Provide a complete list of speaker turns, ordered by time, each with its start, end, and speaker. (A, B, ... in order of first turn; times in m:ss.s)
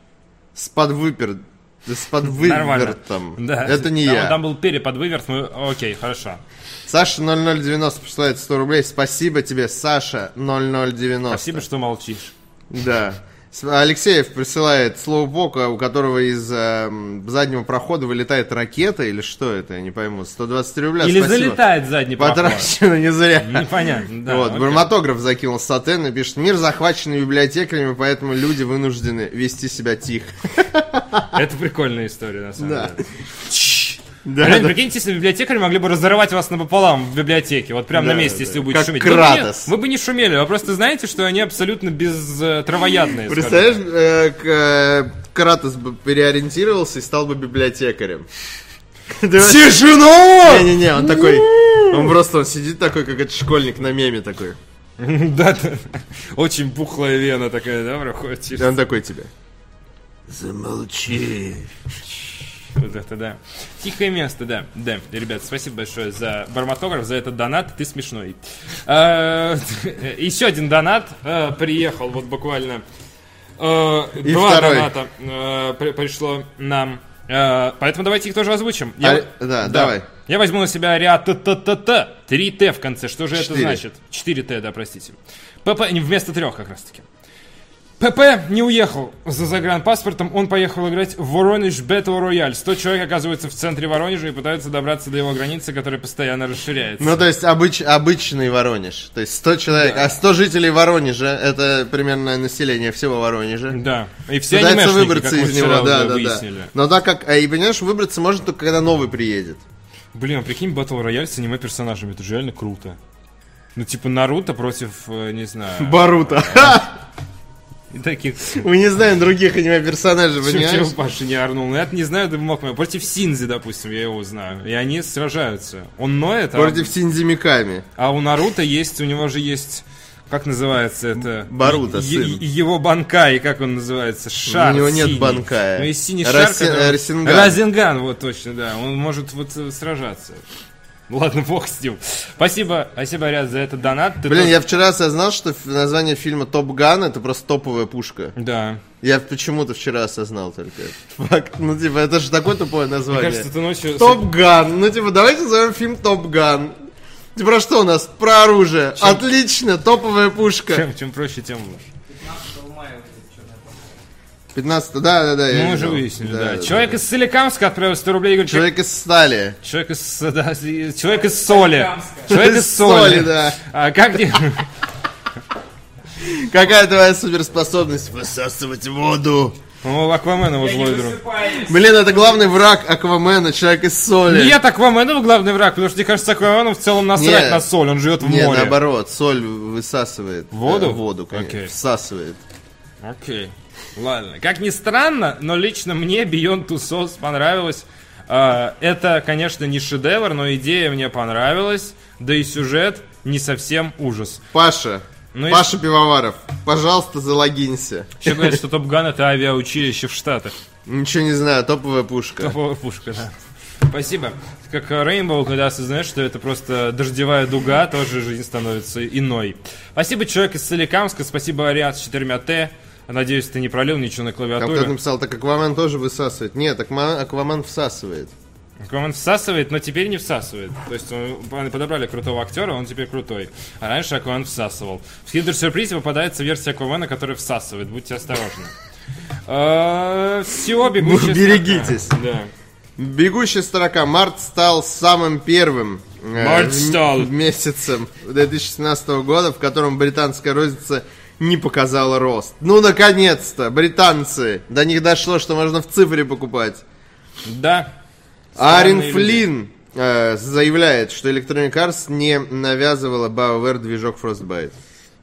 0:00.5-0:04.4 A
0:02.4-0:06.4 B
0:06.9-0:11.6 A
0:11.3-0:12.3 B
0:12.7-0:21.6 A
0:21.0-0:22.7 B
0:22.2-0:31.4 A
0:23.4-0:24.9 B
0:31.3-0:33.1 B
0:32.6-0:32.9 A
0:34.2-0:34.8 A
0:34.4-0:43.8 B
0:37.9-0:39.7 A
0:43.2-0:48.3 A
0:49.1-0:49.8 A
0:49.4-0:51.9 B
0:50.4-0:54.6 A
0:55.0-0:58.7 B
0:58.6-0:59.3 A
1:00.3-1:01.7 A
1:02.7-1:12.8 B
1:13.6-1:27.0 B
1:14.2-1:14.9 A
1:19.0-1:20.0 A
1:23.3-1:23.8 A
1:28.0-1:37.2 B
1:37.0-1:43.8 A
1:39.7-1:40.1 B
1:43.7-1:46.7 B
1:44.5-1:49.6 A
1:50.1-1:53.0 B
1:53.7-1:56.8 B
1:55.8-1:56.9 A
1:57.9-1:58.6 B
1:58.5-2:00.9 A
2:00.4-2:06.9 B
2:06.5-2:07.8 A
2:08.0-2:20.4 B
2:11.4-2:12.4 A
2:14.5-2:17.6 A
2:21.1-2:24.6 B
2:24.3-2:28.3 A
2:28.4-2:28.8 B
2:29.0-2:36.7 A
2:33.1-2:34.2 B
2:37.3-2:40.8 A
2:39.0-2:39.2 B
2:40.7-2:41.9 B
2:42.1-2:43.8 C
2:44.5-2:47.0 A
2:45.5-2:48.7 B
2:48.5-2:49.6 A
2:49.6-2:54.6 B
2:51.1-2:52.3 C
2:52.3-2:53.6 A
2:56.2-2:59.6 A
2:59.8-3:01.2 B
3:00.6-3:02.4 C
3:01.6-3:04.6 A
3:04.3-3:08.8 B
3:07.1-3:07.7 A
3:08.2-3:12.4 A
3:10.5-3:11.7 B
3:13.0-3:24.4 B
3:24.5-3:28.6 A
3:25.3-3:25.7 B
3:28.2-3:30.5 B
3:30.8-3:32.5 A
3:32.4-3:33.3 B
3:33.9-3:44.9 B
3:44.6-3:48.3 A
3:48.8-3:58.7 B
3:59.5-4:02.5 B
4:00.9-4:02.1 A
4:03.0-4:16.8 A
4:06.4-4:07.3 B
4:17.4-4:17.9 B
4:18.6-4:24.7 A
4:18.6-4:19.4 B